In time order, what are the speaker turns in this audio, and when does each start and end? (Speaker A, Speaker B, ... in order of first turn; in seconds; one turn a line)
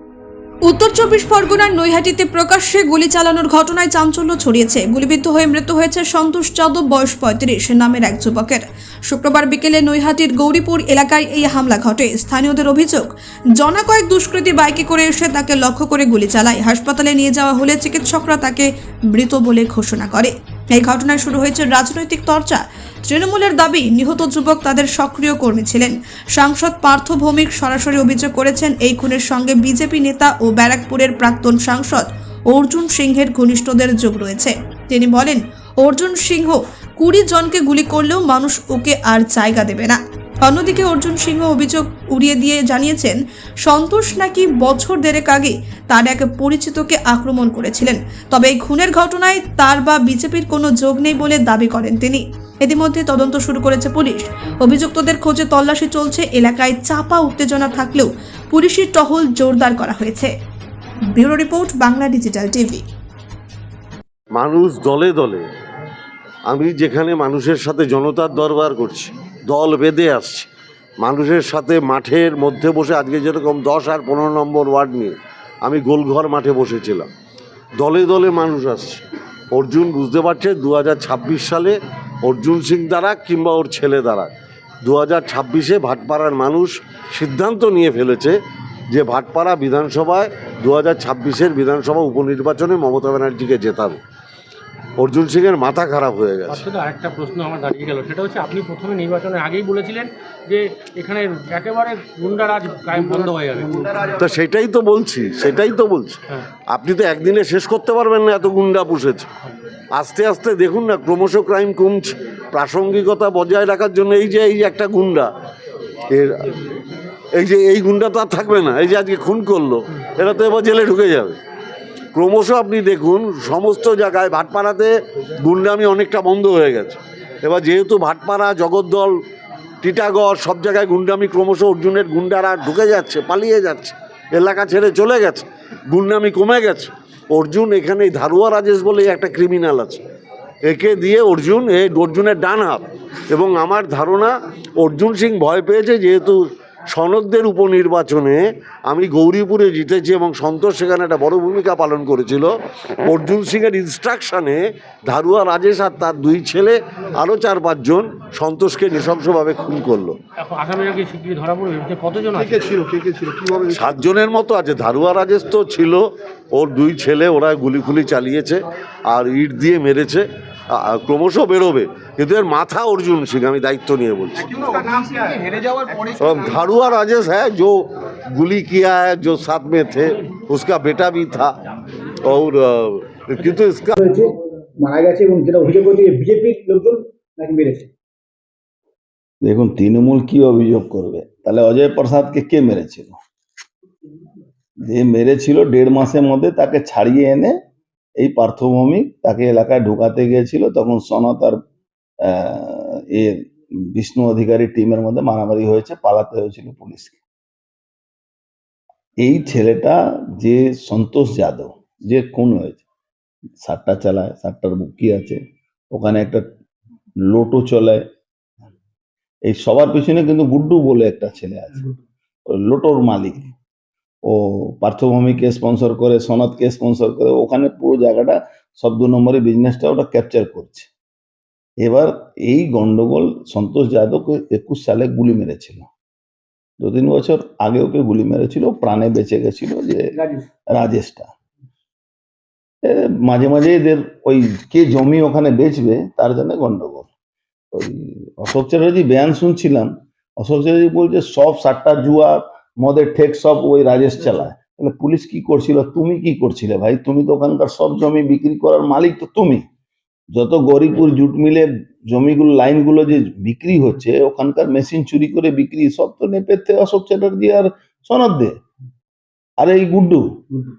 Speaker A: 0.7-60.3
Speaker A: 61.1-62.8
Speaker B: 64.3-65.5
Speaker B: 66.5-70.5
Speaker B: 71.0-77.1
Speaker B: 77.8-79.0
Speaker B: 79.5-84.3
Speaker B: 84.8-88.3
Speaker B: 88.9-94.0
Speaker B: 95.0-96.7
Speaker C: 96.5-104.2
Speaker B: 104.2-106.2
Speaker B: 106.7-109.3
Speaker B: 109.9-115.3
Speaker B: 116.1-116.5
Speaker B: 117.3-121.4
Speaker B: 122.1-129.1
Speaker B: 129.8-140.0
Speaker B: 140.7-146.4
Speaker B: 146.9-152.5
Speaker B: 153.1-160.2
Speaker C: 160.4-162.9
Speaker D: 162.4-163.9
Speaker B: 163.7-174.7
Speaker D: 174.6-175.9
Speaker B: 176.2-181.6
Speaker B: 182.2-183.9
Speaker E: 184.0-187.9
Speaker F: 189.4-193.2
Speaker F: 194.8-197.5
Speaker F: 198.2-201.6
Speaker F: 202.2-207.2
Speaker F: 209.2-212.8
Speaker F: 213.6-215.4
Speaker F: 215.9-216.5
Speaker F: 217.3-218.0
Speaker F: 219.5-221.9
Speaker F: 222.5-223.5
Speaker F: 224.3-230.9
Speaker F: 231.8-235.9
Speaker F: 236.8-240.1
Speaker E: 240.1-240.4
Speaker F: 240.7-241.3
Speaker F: 242.8-247.1
Speaker F: 247.7-259.6
Speaker F: 260.3-268.6
Speaker F: 269.6-270.3